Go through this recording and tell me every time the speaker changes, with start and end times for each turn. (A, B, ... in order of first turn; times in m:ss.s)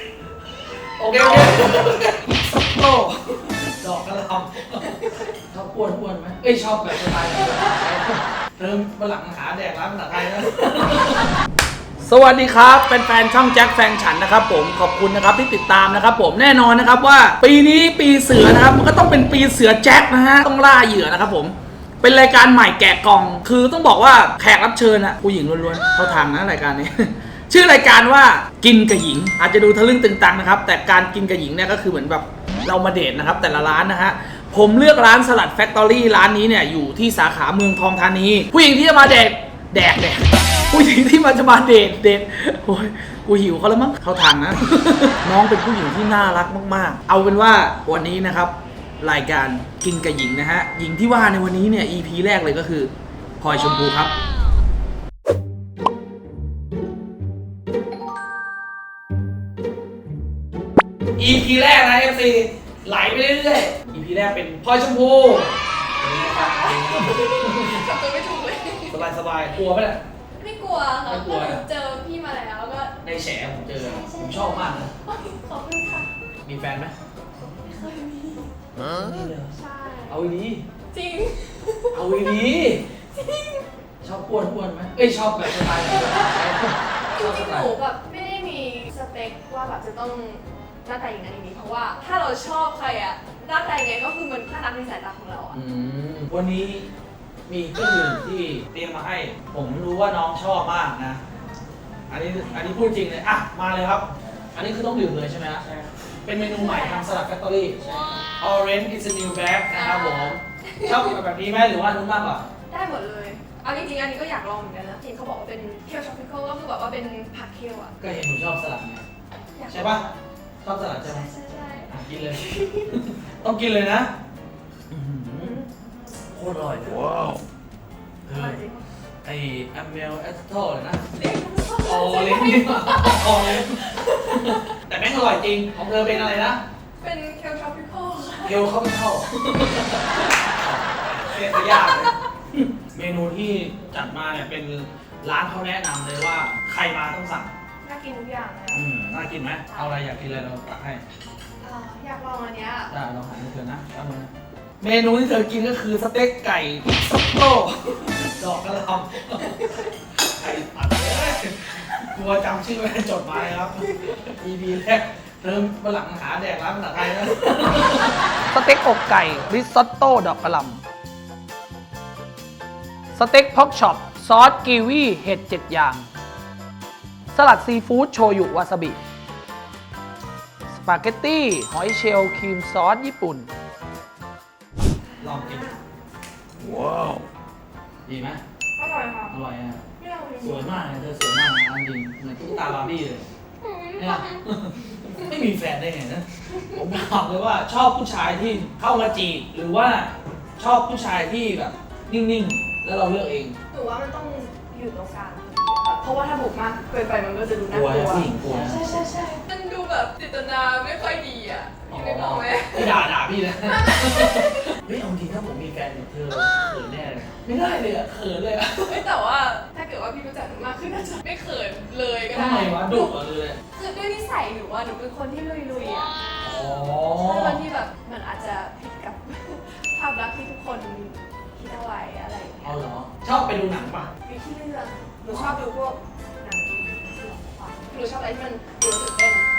0:01.0-0:11.4 A
0:12.0-0:54.1 A
1:01.2-1:07.9 A
1:06.0-1:09.0 B
1:08.9-1:10.0 A
1:10.3-1:13.0 B
1:11.1-1:11.6 A
1:13.0-1:14.9 A
1:13.8-1:16.1 B
1:16.4-1:16.9 A
1:17.6-1:18.5 B
1:18.8-1:19.5 A
1:19.5-1:20.2 B
1:20.1-1:20.6 A
1:20.9-1:22.0 B
1:21.9-1:22.9 A
1:23.1-1:23.6 B
1:24.0-1:27.8 A
1:25.8-1:26.2 B
1:27.0-1:35.6 B
1:35.5-1:36.9 A
1:37.5-1:41.2 A
1:42.1-1:45.7 A
1:42.4-1:42.7 B
1:46.2-1:52.4 A
1:46.4-1:47.2 B
1:49.7-1:51.1 B
1:52.7-1:57.9 B
1:58.0-1:59.0 A
1:59.6-2:00.1 B
1:59.7-2:00.0 A
2:00.6-2:01.3 A
2:01.0-2:03.0 B
2:01.9-2:04.1 A
2:04.9-2:05.6 A
2:05.4-2:05.7 B
2:06.3-2:07.2 A
2:08.3-2:08.6 A
2:08.3-2:08.8 B
2:09.2-2:11.0 A
2:11.1-2:14.7 B
2:11.8-2:16.6 A
2:17.0-2:18.6 B
2:18.4-2:27.5 A
2:21.3-2:22.1 B
2:27.8-2:28.9 B
2:28.7-2:31.0 A
2:29.7-2:30.0 B
2:31.6-2:32.9 B
2:32.9-2:50.8 A
2:53.2-2:56.1 A
2:57.3-2:59.0 A
3:00.7-3:03.5 A
3:05.1-3:05.8 B
3:05.2-3:05.7 A
3:08.1-3:08.4 A
3:08.8-3:09.4 B
3:09.3-3:09.8 A
3:10.0-3:10.8 B
3:10.4-3:13.3 A
3:13.6-3:14.4 B
3:14.0-3:23.6 A
3:23.7-3:33.0 B
3:27.7-3:29.0 A
3:31.9-3:39.0 A
3:33.6-3:34.8 B
3:38.8-3:43.1 B
3:42.3-3:43.6 A
3:43.7-3:46.2 B
3:46.4-3:47.6 A
3:47.1-3:52.8 B
3:52.6-3:54.1 A
3:54.2-3:59.5 B
3:55.3-3:55.6 A